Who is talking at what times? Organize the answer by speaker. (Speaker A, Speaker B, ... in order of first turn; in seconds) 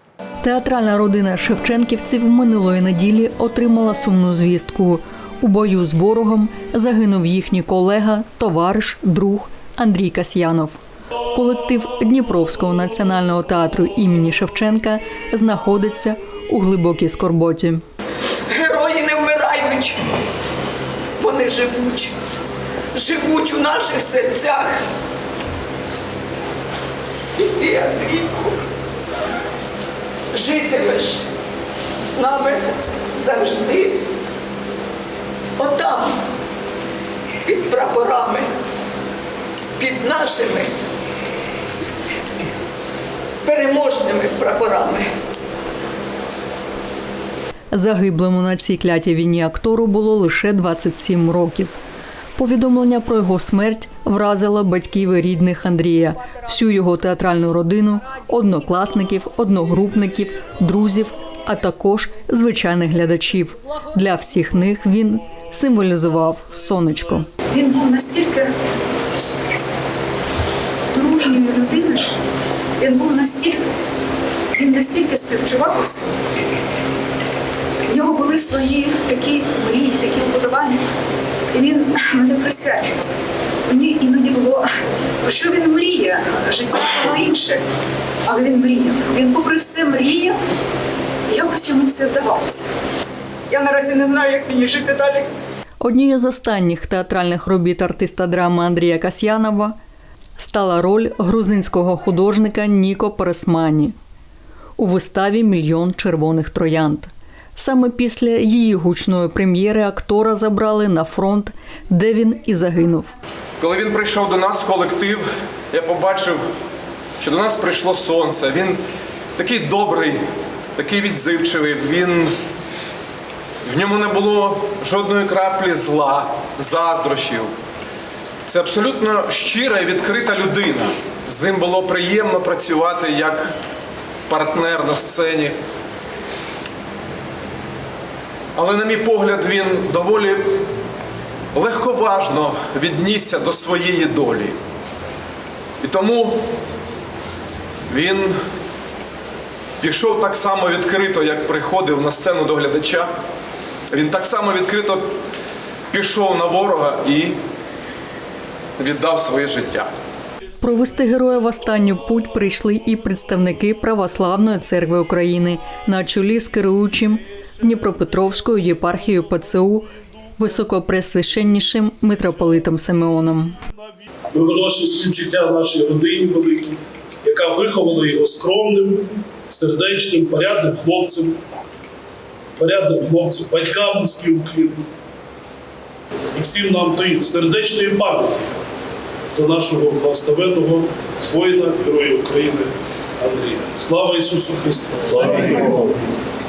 Speaker A: 0.4-10.8, 11.3-17.8, 47.7-51.8, 52.4-67.3, 95.8-99.8, 100.4-103.9, 104.8-113.1, 160.6-173.6
Speaker B: 18.5-20.0, 21.2-22.1, 22.9-24.8, 27.4-28.6, 30.3-31.3, 32.0-34.0, 35.6-36.2, 37.5-38.5, 39.8-40.7, 43.4-45.1
Speaker C: 67.5-68.5, 70.9-72.2, 72.8-73.6, 74.6-76.1, 77.8-80.8, 81.5-83.0, 83.7-84.7, 85.2-87.6, 88.3-90.4, 91.3-92.7, 93.5-95.3
Speaker D: 113.6-116.4, 117.2-118.8, 119.4-120.2, 120.8-122.3, 123.6-127.5, 128.5-133.5, 134.3-135.6, 138.5-140.6, 141.5-144.6, 145.8-146.4, 147.9-148.4, 149.8-153.1, 153.9-155.1, 155.9-157.4, 158.8-159.9
Speaker E: 174.3-181.4, 182.6-184.9, 186.3-188.5, 189.3-195.9